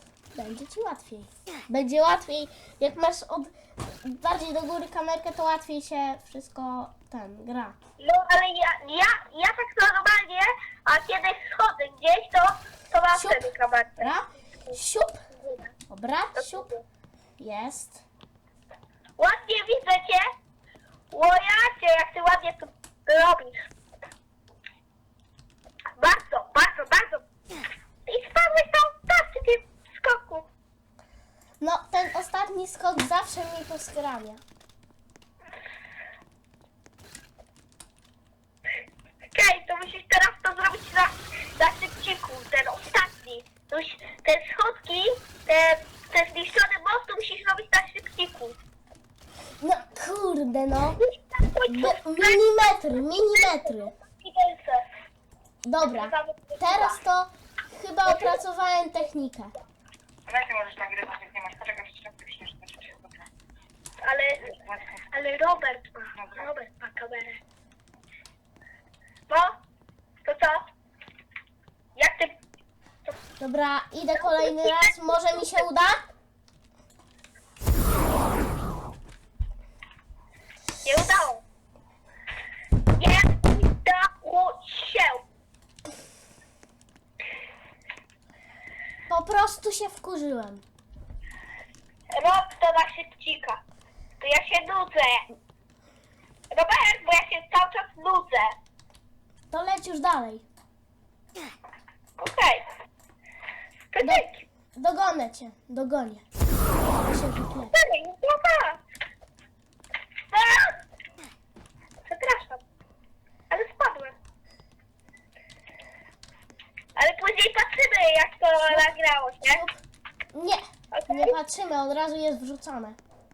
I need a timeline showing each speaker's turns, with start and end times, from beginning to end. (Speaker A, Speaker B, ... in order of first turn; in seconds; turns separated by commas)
Speaker A: 0.3-7.8, Speaker B: 8.0-14.1, Speaker A: 13.1-15.2, Speaker B: 15.4-15.7, Speaker A: 15.9-16.7, Speaker B: 16.4-16.8, Speaker A: 17.4-18.0, Speaker B: 19.2-20.3, Speaker B: 21.1-23.6, Speaker B: 26.0-27.2, Speaker B: 28.1-30.5, Speaker A: 31.6-34.4, Speaker B: 39.3-48.6, Speaker A: 49.6-51.0, Speaker B: 51.0-54.8, Speaker A: 51.7-53.9, Speaker A: 55.6-59.5, Speaker B: 55.8-57.0, Speaker C: 60.3-63.0, Speaker B: 64.0-67.4, Speaker B: 69.3-69.6, Speaker B: 70.2-70.6, Speaker B: 72.0-72.3, Speaker A: 73.4-76.0, Speaker B: 74.2-75.7, Speaker B: 80.8-81.4, Speaker B: 83.0-85.2, Speaker A: 89.1-90.6, Speaker B: 92.1-93.6, Speaker B: 94.2-95.3, Speaker B: 96.5-98.5, Speaker A: 99.5-100.4, Speaker B: 102.2-102.6, Speaker B: 103.9-104.4, Speaker A: 104.0-106.2, Speaker A: 107.0-107.7, Speaker B: 107.7-108.8, Speaker B: 110.3-110.8, Speaker B: 112.1-112.6, Speaker B: 113.5-114.1, Speaker B: 117.0-119.6, Speaker A: 119.5-119.8, Speaker A: 120.3-123.0, Speaker B: 120.9-121.3